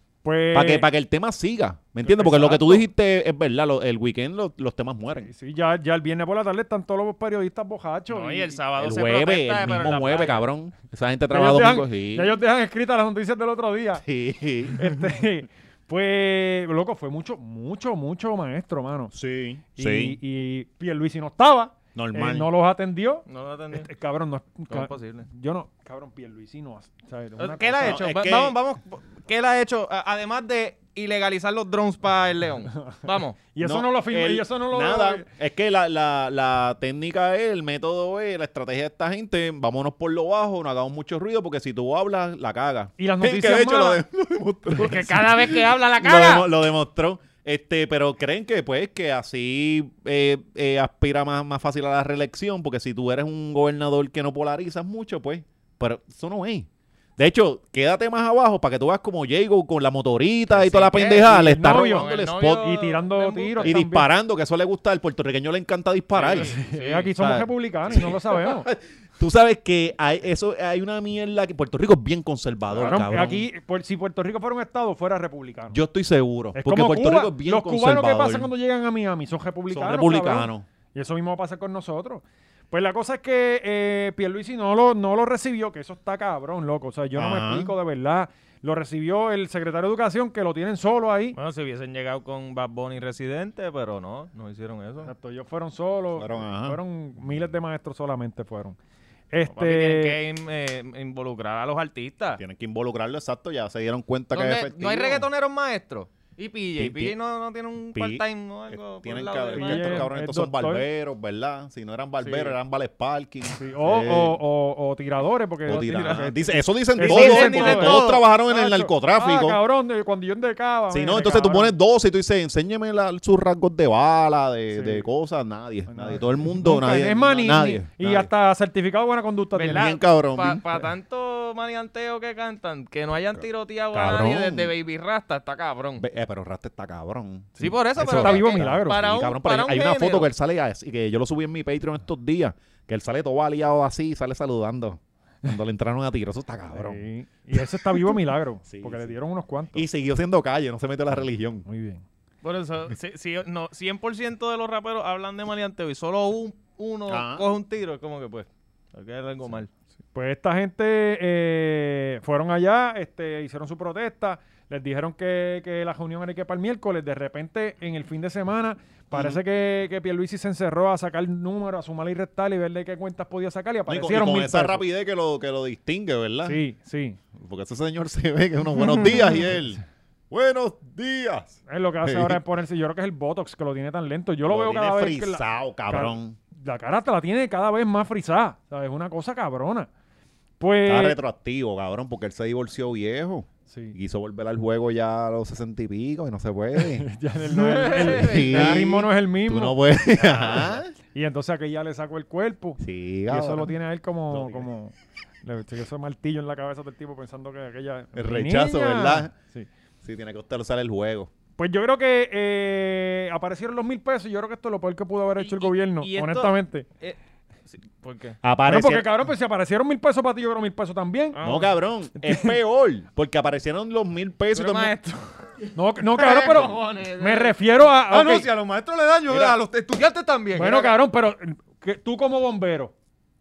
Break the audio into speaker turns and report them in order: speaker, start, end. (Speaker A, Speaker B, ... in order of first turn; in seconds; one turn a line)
Speaker A: 0.2-0.9
Speaker B: 0.5-5.3
Speaker A: 2.0-2.9
Speaker A: 5.2-8.6
Speaker C: 8.1-10.4
Speaker B: 8.8-12.3
Speaker A: 11.3-14.0
Speaker B: 14.0-14.9
Speaker A: 14.7-19.1
Speaker B: 19.1-20.2
Speaker A: 19.8-28.0
Speaker B: 21.9-22.5
Speaker C: 23.3-23.9
Speaker C: 24.7-25.3
Speaker C: 27.4-33.4
Speaker B: 27.8-28.6
Speaker A: 32.8-33.0
Speaker A: 33.5-35.3
Speaker B: 33.6-62.7
Speaker A: 43.0-44.0
Speaker C: 44.7-46.5
Speaker C: 60.5-63.8
Speaker A: 61.2-64.1
Speaker B: 63.6-66.5
Speaker C: 66.1-67.1
Speaker A: 66.3-68.7
Speaker B: 67.2-73.5
Speaker A: 72.8-75.8
Speaker B: 75.7-78.5
Speaker A: 76.5-91.4
Speaker B: 79.7-80.7
Speaker B: 87.1-87.7
Speaker C: 91.4-95.1
Speaker A: 95.0-98.8
Speaker B: 96.2-96.8
Speaker A: 99.3-100.2
Speaker C: 99.5-102.4
Speaker B: 102.4-105.3
Speaker C: 104.3-110.1
Speaker B: 106.8-107.2
Speaker B: 108.0-114.4
Speaker A: 109.6-110.8
Speaker C: 112.2-112.5
Speaker A: 113.6-121.8
Speaker B: 115.6-119.6
Speaker C: 115.7-116.3
Speaker C: 117.0-118.2
Speaker B: 120.9-128.3
Speaker A: 124.7-125.1
Speaker A: 125.9-129.9
Speaker C: 129.6-136.1
Speaker B: 129.7-130.6
Speaker B: 133.9-134.7
Speaker B: 136.0-147.0
Speaker A: 137.6-139.0
Speaker C: 137.6-140.3
Speaker A: 146.7-149.8
Speaker B: 147.6-149.1
Speaker B: 149.7-151.6
Speaker A: 151.7-152.0
Speaker C: 152.4-159.7
Speaker B: 157.1-157.5
Speaker A: 160.1-174.8
Speaker B: 169.1-169.4
Speaker B: 173.9-176.6
Speaker A: 176.4-177.2
Speaker B: 177.3-182.4
Speaker A: 181.7-189.9
Speaker B: 184.5-186.4
Speaker A: 190.6-191.2
Speaker B: 190.8-197.1
Speaker A: 193.7-194.0
Speaker A: 196.8-199.8
Speaker C: 197.5-198.8
Speaker B: 198.0-200.9
Speaker C: 200.2-200.7
Speaker A: 201.1-209.7
Speaker B: 202.8-203.7
Speaker B: 204.3-204.7
Speaker B: 208.1-209.3
Speaker B: 210.0-211.3
Speaker A: 211.6-216.9
Speaker C: 215.4-217.2
Speaker C: 217.7-218.4
Speaker B: 218.4-219.1
Speaker A: 218.7-221.4
Speaker C: 221.3-221.7
Speaker B: 221.4-224.9
Speaker A: 222.2-222.6
Speaker C: 224.5-225.4
Speaker A: 225.8-228.5
Speaker C: 226.1-230.9
Speaker B: 229.3-229.6
Speaker A: 230.6-232.9